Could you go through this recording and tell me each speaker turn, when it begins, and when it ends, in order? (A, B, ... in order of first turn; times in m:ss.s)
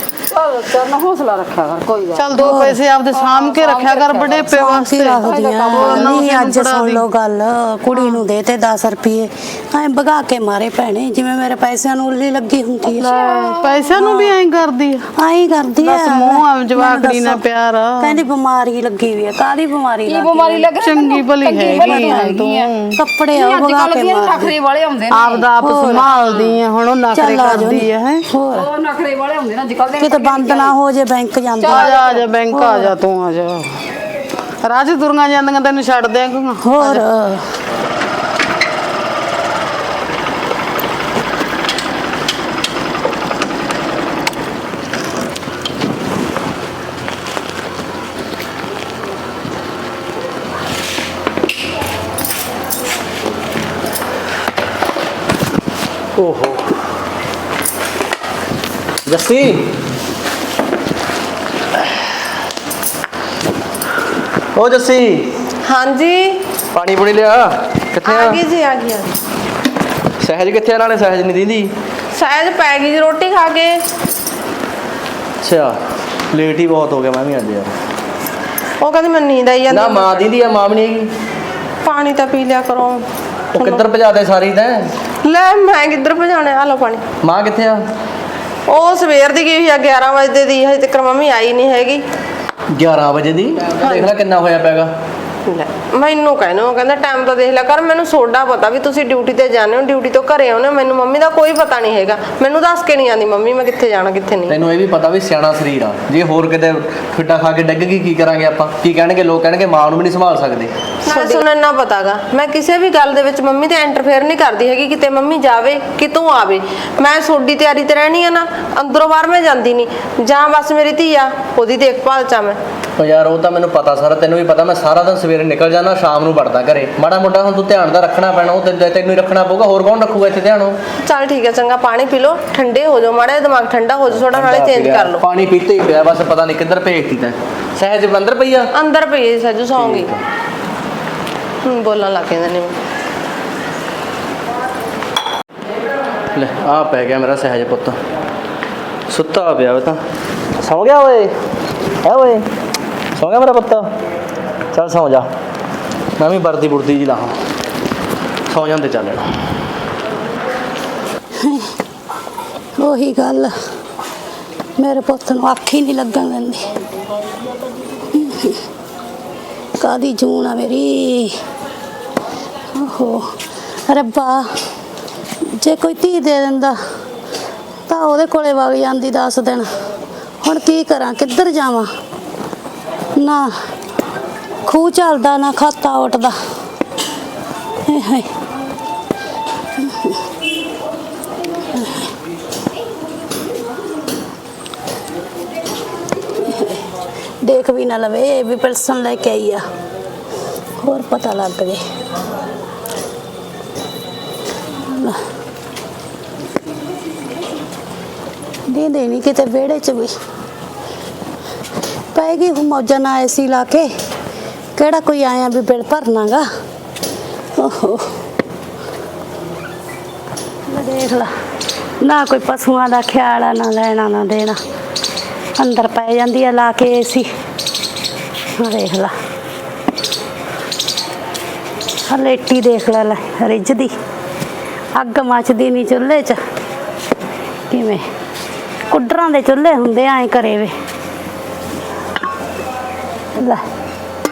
0:00.2-0:04.5 A
0:02.2-0:07.0 B
0:02.3-0:02.8 C
0:04.4-0:13.2 C
0:05.2-0:06.4 A
0:12.9-0:15.1 B
0:13.0-0:14.3 A
0:15.1-0:17.4 C
0:15.8-0:18.2 B
0:18.0-0:20.7 C
0:20.1-0:22.7 A
0:20.8-0:23.0 B
0:21.6-0:22.2 C
0:23.0-0:24.5 C
0:23.3-0:26.6 A
0:25.1-0:28.3 B
0:25.6-0:26.1 C
0:27.1-0:28.7 C
0:28.5-0:30.8 A
0:30.0-0:32.9 C
0:31.6-0:32.3 A
0:31.7-0:33.7 B
0:34.6-0:37.0 B
0:36.6-0:37.5 C
0:56.2-0:56.7 D
0:59.0-0:59.7 D
1:04.5-1:05.3 D
1:05.6-1:06.4 E
1:06.7-1:08.4 D
1:08.0-1:09.1 E
1:10.2-1:11.7 D
1:12.2-1:13.8 E
1:15.4-1:15.8 D
1:16.3-1:17.7 D
1:18.8-1:20.2 E
1:19.7-1:21.1 D
1:21.8-1:23.8 E
1:23.5-1:24.9 D
1:25.2-1:27.0 E
1:27.2-1:27.8 D
1:28.7-1:32.0 E
1:32.7-1:34.9 D
1:33.8-1:34.1 E
1:35.4-1:44.6 E
1:44.5-1:50.7 D
1:51.0-2:02.6 E
2:03.0-2:10.8 D
2:11.0-2:15.2 E
2:14.1-2:18.7 D
2:18.7-2:20.1 E
2:19.8-2:20.2 D
2:21.6-2:22.8 E
2:26.3-2:28.0 D
2:29.1-2:30.0 D
2:30.6-2:31.3 D
2:32.0-2:32.4 D
2:33.2-2:33.9 D
2:34.7-2:35.3 D
2:36.2-2:37.4 D
2:38.5-2:39.3 D
2:41.3-2:41.7 C
2:42.8-2:43.6 C
2:44.8-2:46.7 C
2:48.1-2:48.6 C
2:49.8-2:51.4 C
2:52.7-2:54.5 C
2:55.4-2:56.8 C
2:57.9-2:59.7 C
3:00.4-3:01.9 C
3:03.2-3:03.5 C
3:04.6-3:06.4 C
3:07.8-3:08.3 C
3:09.8-3:10.2 C
3:11.7-3:12.1 C
3:16.4-3:16.8 C
3:17.4-3:19.7 C
3:20.8-3:21.8 C
3:24.8-3:25.2 C
3:28.7-3:30.1 C
3:32.1-3:33.9 C
3:34.8-3:36.5 C
3:37.6-3:38.2 C
3:40.7-3:41.3 C
3:42.0-3:44.6 C
3:45.6-3:47.3 C
3:48.6-3:49.1 C
3:52.1-3:54.0 C
3:55.0-3:56.4 C
3:57.7-3:58.0 C
3:58.9-4:00.7 C
4:03.4-4:03.6 C